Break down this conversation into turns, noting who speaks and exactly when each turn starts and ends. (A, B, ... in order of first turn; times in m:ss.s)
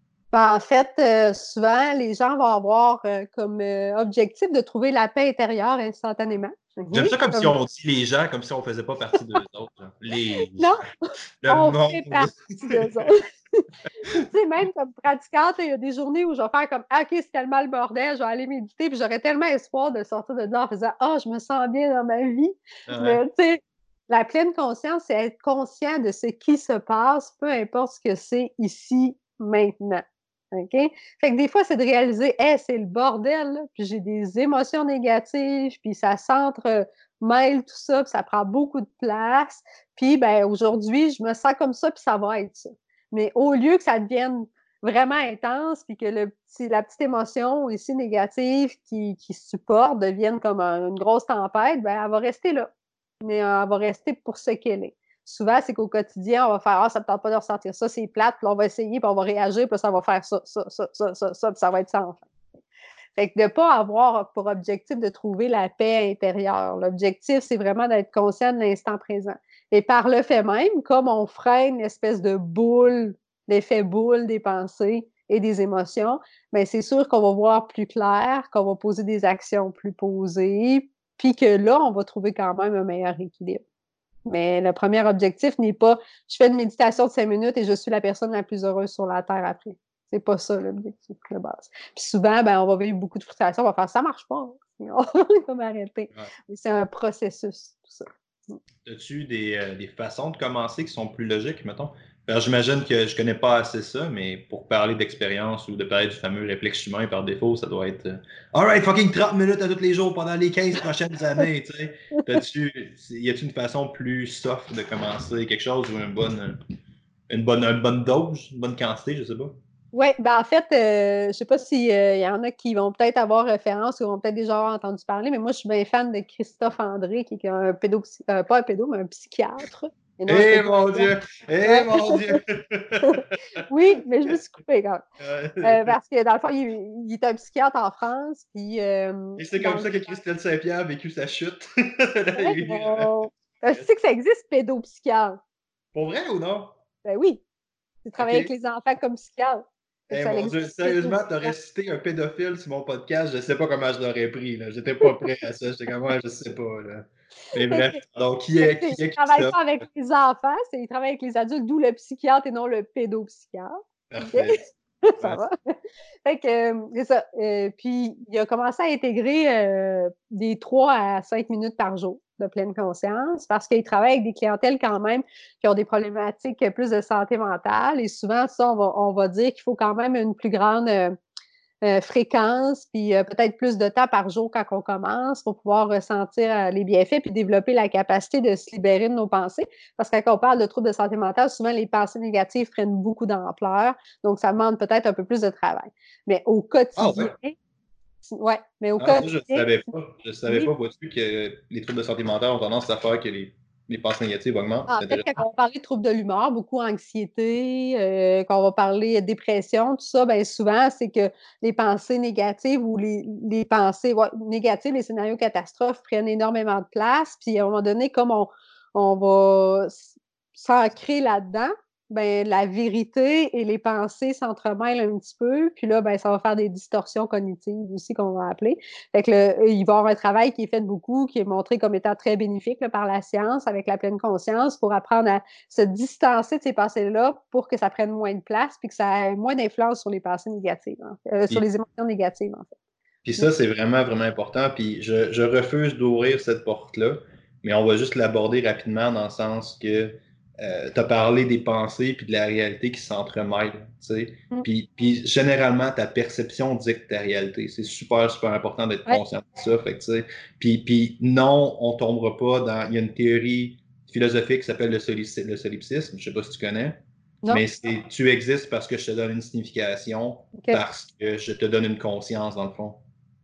0:00.3-0:07.5 A
0:06.9-0:10.7 B
0:10.6-0:10.9 A
0:11.4-0:13.1 B
0:11.5-0:52.7 A
0:13.9-0:14.2 B
0:22.9-0:23.2 B
0:53.2-1:02.3 A
1:03.2-1:23.6 A
1:24.3-1:38.6 A
1:38.8-1:56.6 B
1:57.3-1:59.6 B
1:59.9-2:11.1 A
2:10.3-2:13.6 B
2:11.6-2:12.4 A
2:13.7-2:15.0 A
2:15.2-2:16.0 B
2:15.6-2:19.9 A
2:19.4-2:23.9 B
2:22.3-2:25.4 A
2:25.9-2:26.8 B
2:27.0-2:27.4 A
2:28.0-2:31.5 A
2:28.2-2:28.5 B
2:30.1-2:39.6 B
2:37.6-2:38.0 A
2:38.6-2:45.7 A
2:44.1-2:45.4 B
2:46.2-3:01.2 A
3:01.8-3:17.6 A
3:17.0-3:17.4 B
3:18.2-3:19.8 A
3:19.0-3:25.4 B
3:20.5-3:20.7 A
3:24.9-4:02.7 A
4:03.2-4:27.0 B
4:27.5-4:33.0 B
4:30.6-4:30.8 A